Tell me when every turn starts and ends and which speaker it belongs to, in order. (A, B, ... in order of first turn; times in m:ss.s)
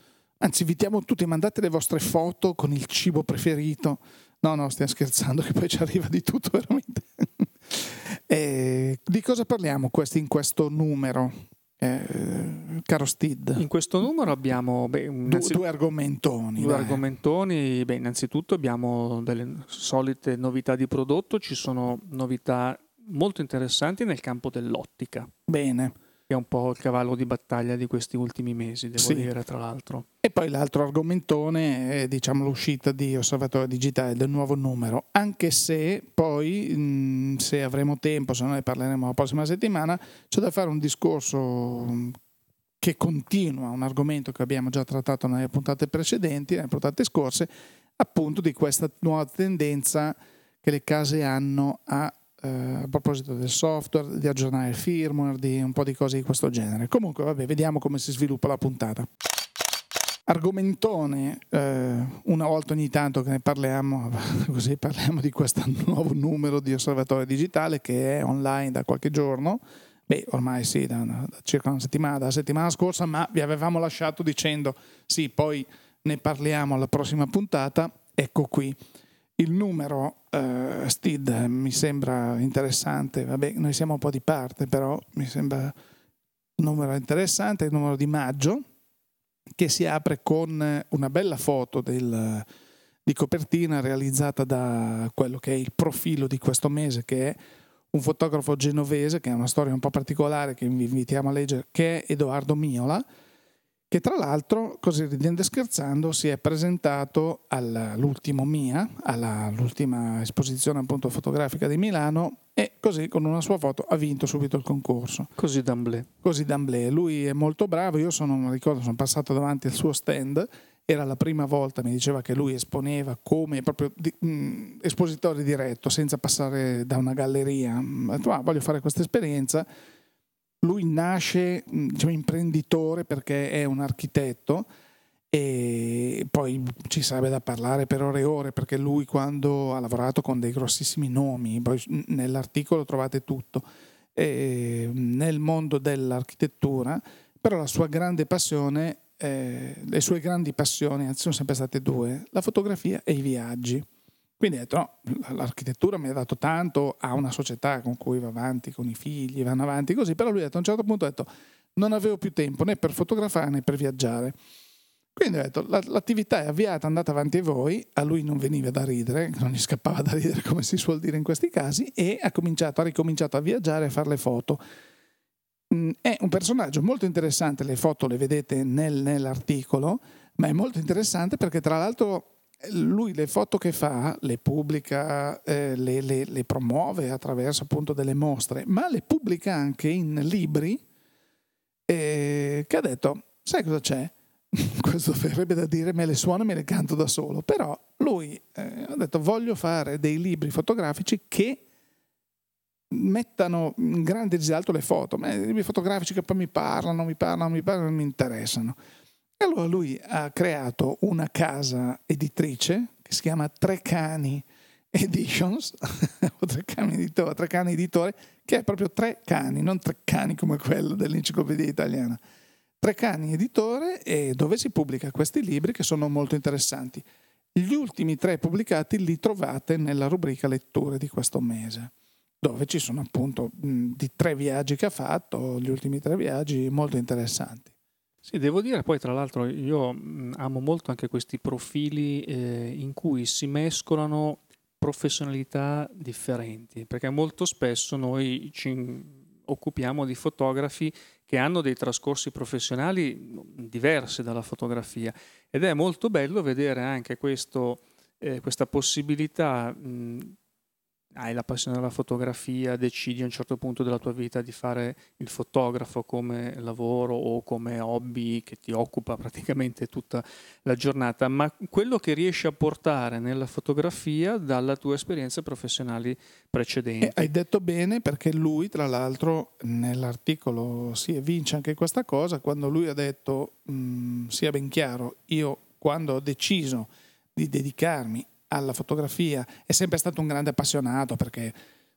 0:00.4-0:13.6 A
0:13.6-0:15.6 B
0:15.2-0:17.0 A
0:16.6-0:25.3 B
0:25.5-0:25.9 A
0:26.3-0:30.0 B
0:29.0-0:29.3 A
0:30.2-0:42.1 A
0:42.8-0:59.1 A
1:00.3-1:18.8 A
1:19.4-1:25.7 A
1:26.6-1:28.6 A
1:29.6-1:32.4 A
1:33.0-1:37.4 A
1:37.9-1:43.0 A
1:43.9-1:55.3 A
1:55.4-1:56.1 B
1:56.2-2:09.6 A
2:10.6-2:14.7 A
2:15.3-2:23.6 A
2:24.2-2:33.8 A
2:34.4-2:44.3 A
2:45.2-2:54.6 A
2:55.7-3:10.8 A
3:11.9-3:21.6 A
3:22.9-3:28.7 A
3:29.4-3:42.2 A
3:42.8-3:47.0 A
3:47.6-3:57.7 A
3:58.2-4:20.3 B
4:21.1-4:37.3 B
4:37.0-4:51.5 A